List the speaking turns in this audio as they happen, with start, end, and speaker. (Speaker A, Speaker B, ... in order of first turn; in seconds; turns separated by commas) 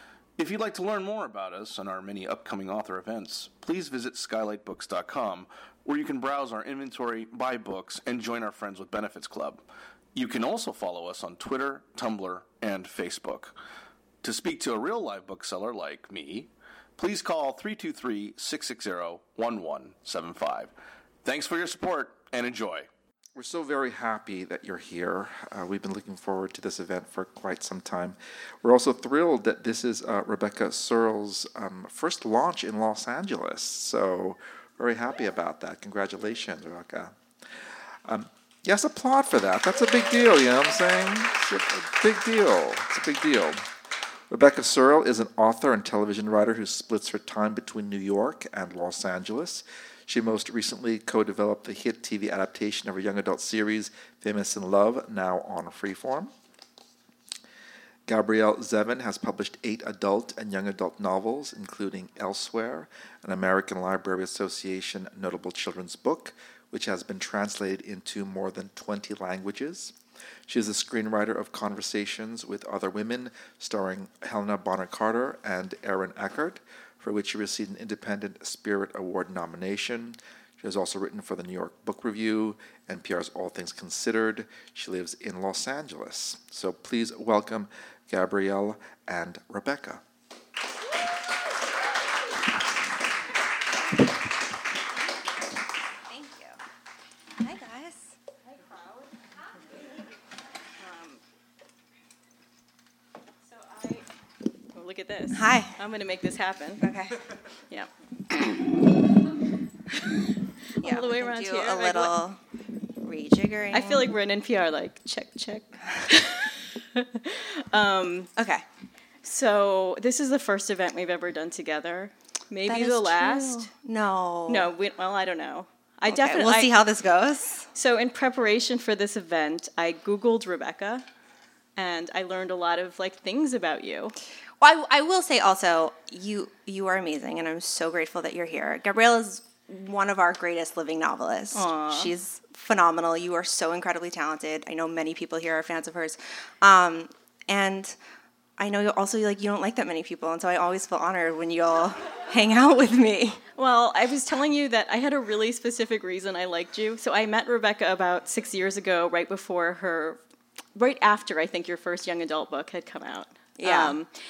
Speaker A: 0.4-9.6, Speaker A: 10.1-13.5, Speaker A: 14.2-20.7, Speaker A: 21.2-22.9, Speaker B: 23.4-37.1, Speaker B: 38.0-43.6, Speaker B: 44.3-56.3, Speaker B: 58.1-69.9, Speaker B: 70.5-90.0, Speaker C: 96.1-96.6, Speaker C: 97.4-98.1, Speaker D: 100.8-101.2, Speaker D: 103.5-104.0, Speaker D: 104.7-106.8, Speaker C: 105.3-105.7, Speaker C: 106.8-107.2, Speaker D: 107.7-108.8, Speaker D: 110.8-112.1, Speaker C: 110.8-112.4, Speaker C: 113.0-114.1, Speaker D: 113.7-118.3, Speaker C: 118.3-118.6, Speaker D: 119.2-123.7, Speaker C: 122.7-124.7, Speaker D: 124.5-126.7, Speaker C: 126.1-127.7, Speaker D: 127.7-131.0, Speaker D: 131.8-134.1, Speaker C: 134.6-147.9, Speaker D: 141.5-142.1, Speaker C: 148.6-153.4, Speaker D: 153.5-160.2, Speaker D: 160.7-164.1, Speaker C: 163.6-163.9